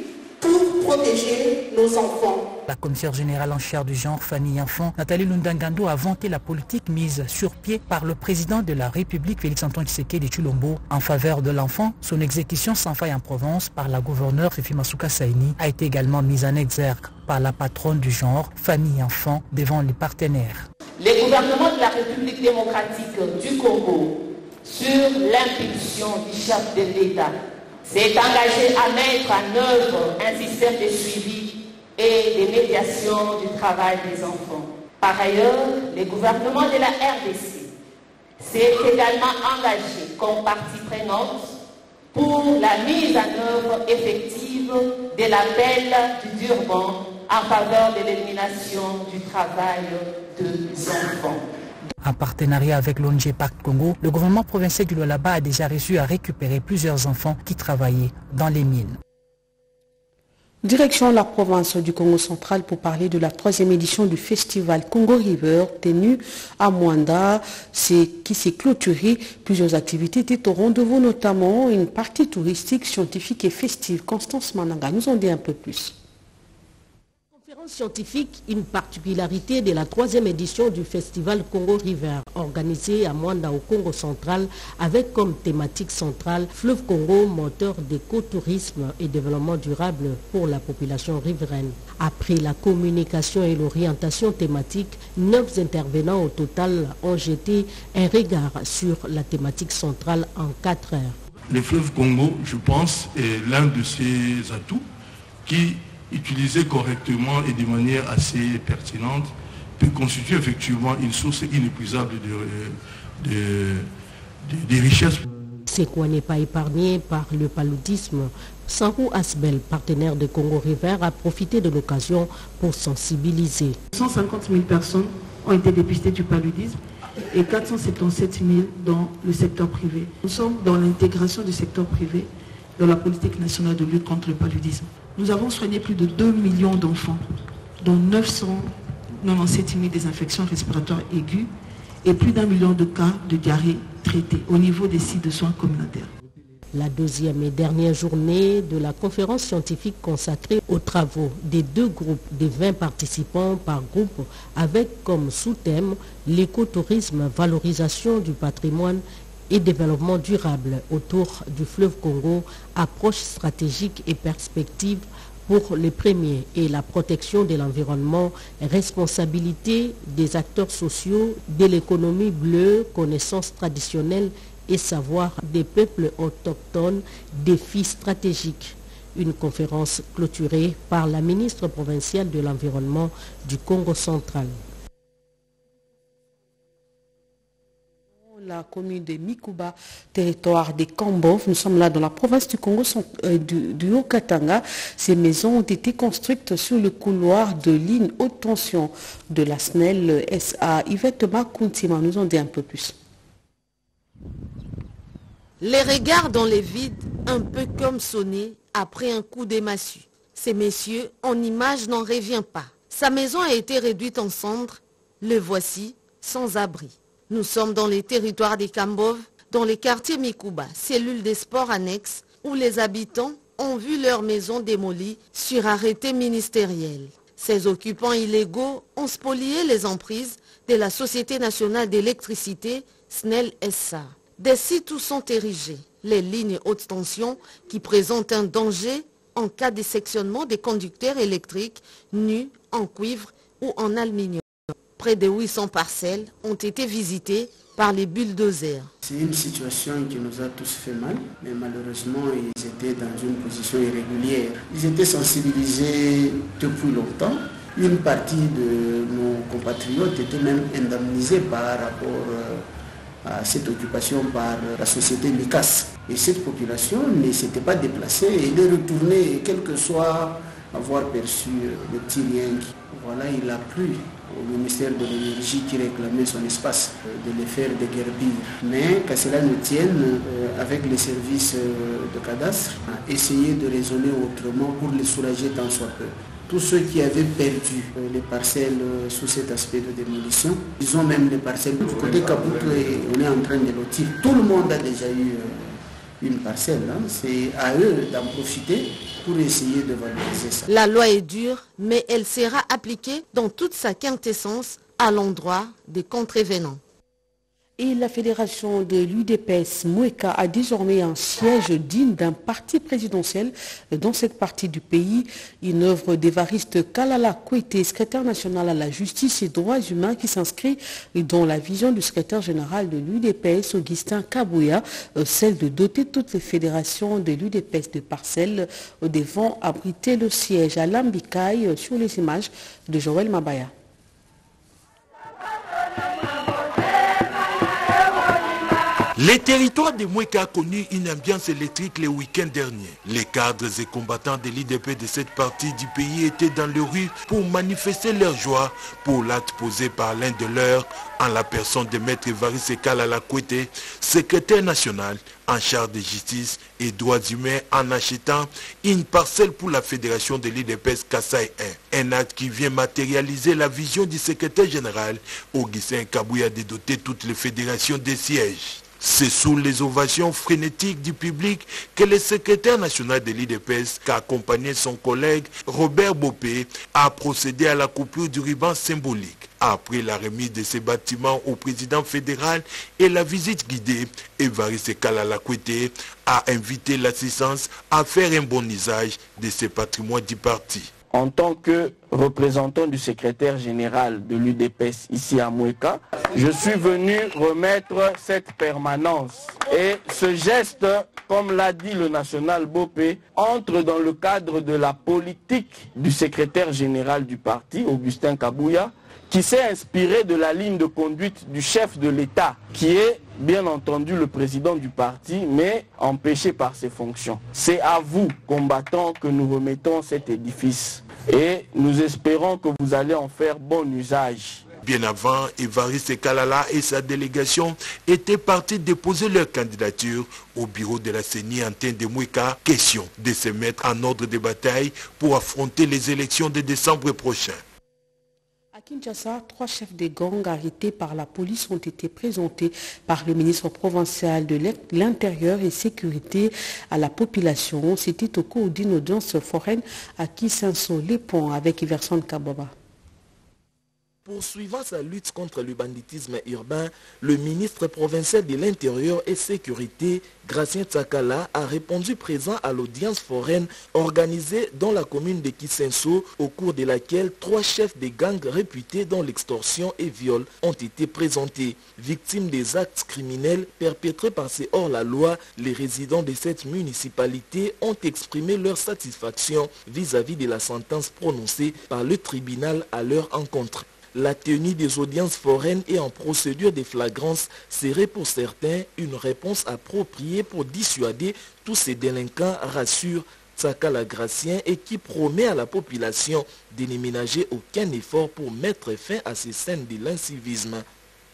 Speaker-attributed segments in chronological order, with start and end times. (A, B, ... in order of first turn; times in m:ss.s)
0:00.4-0:02.4 A
0:02.7-0:20.7 B
0:21.0-0:27.3 C
0:27.8-0:37.7 C
0:38.4-0:41.5 C
0:42.1-0:51.4 C
0:52.0-0:59.0 B
1:00.6-1:16.0 D
1:17.3-1:41.2 E
1:41.5-1:44.8 F
1:45.4-1:53.9 F
1:54.4-1:55.2 F
1:55.7-2:03.8 E
2:03.9-2:06.8 G
2:07.3-2:17.2 G
2:17.8-2:21.5 G
2:22.0-2:26.1 G
2:26.7-3:04.6 E
3:08.1-3:22.9 D
3:25.6-4:04.4 H
4:04.9-4:08.9 H
4:09.0-4:22.6 I
4:23.2-5:00.7 I
5:00.7-5:06.8 H
5:07.8-5:33.7 D
5:39.2-6:30.9 J
6:31.1-7:04.6 K
7:04.8-7:17.6 J
7:18.7-7:32.7 D
7:34.2-8:20.8 L